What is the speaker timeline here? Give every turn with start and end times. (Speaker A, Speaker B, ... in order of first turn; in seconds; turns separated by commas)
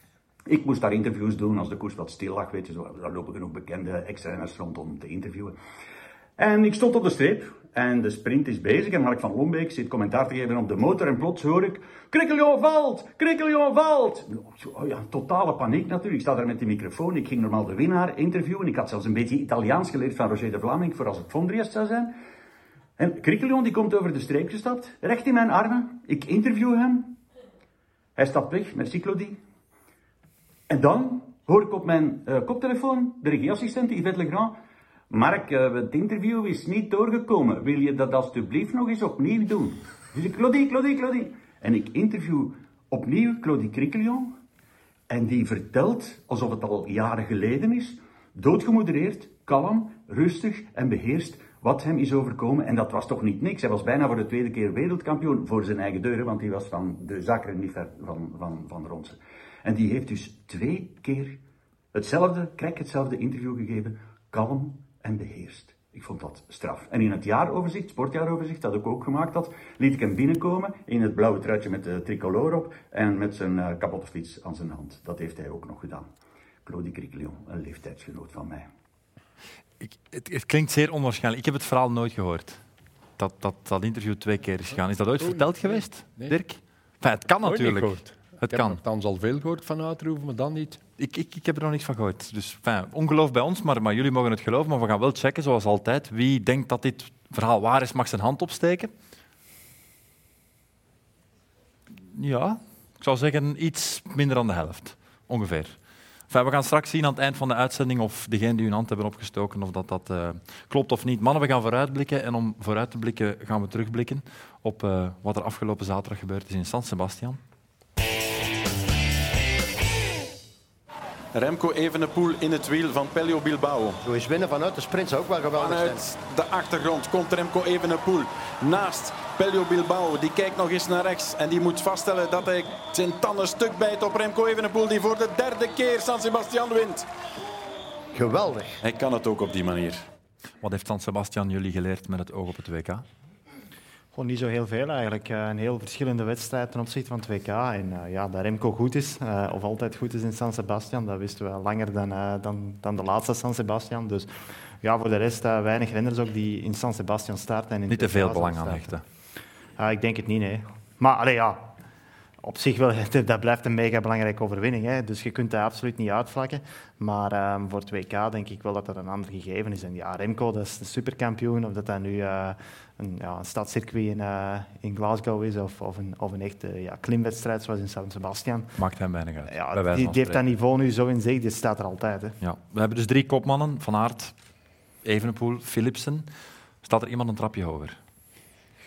Speaker A: 0.5-5.5, Speaker A: 6.4-22.1, Speaker A: 23.0-27.2, Speaker A: 28.2-29.4, Speaker A: 30.7-34.6, Speaker A: 35.1-44.4, Speaker A: 45.1-61.4, Speaker A: 61.9-76.1, Speaker A: 76.7-78.7, Speaker B: 79.8-82.6, Speaker B: 83.2-88.8, Speaker C: 85.2-86.4, Speaker C: 87.4-90.8, Speaker B: 91.0-98.9, Speaker B: 102.1-105.8, Speaker B: 106.3-117.4, Speaker D: 121.3-124.0, Speaker E: 124.0-126.1, Speaker D: 125.6-137.1, Speaker E: 138.1-138.8, Speaker D: 138.8-140.1, Speaker B: 140.6-143.0, Speaker F: 144.1-154.3, Speaker F: 154.8-158.9, Speaker B: 157.9-159.0, Speaker F: 159.8-161.7, Speaker F: 162.4-178.8, Speaker B: 178.8-180.4, Speaker F: 179.5-182.3, Speaker B: 182.4-184.3, Speaker B: 185.0-186.3, Speaker B: 186.8-188.0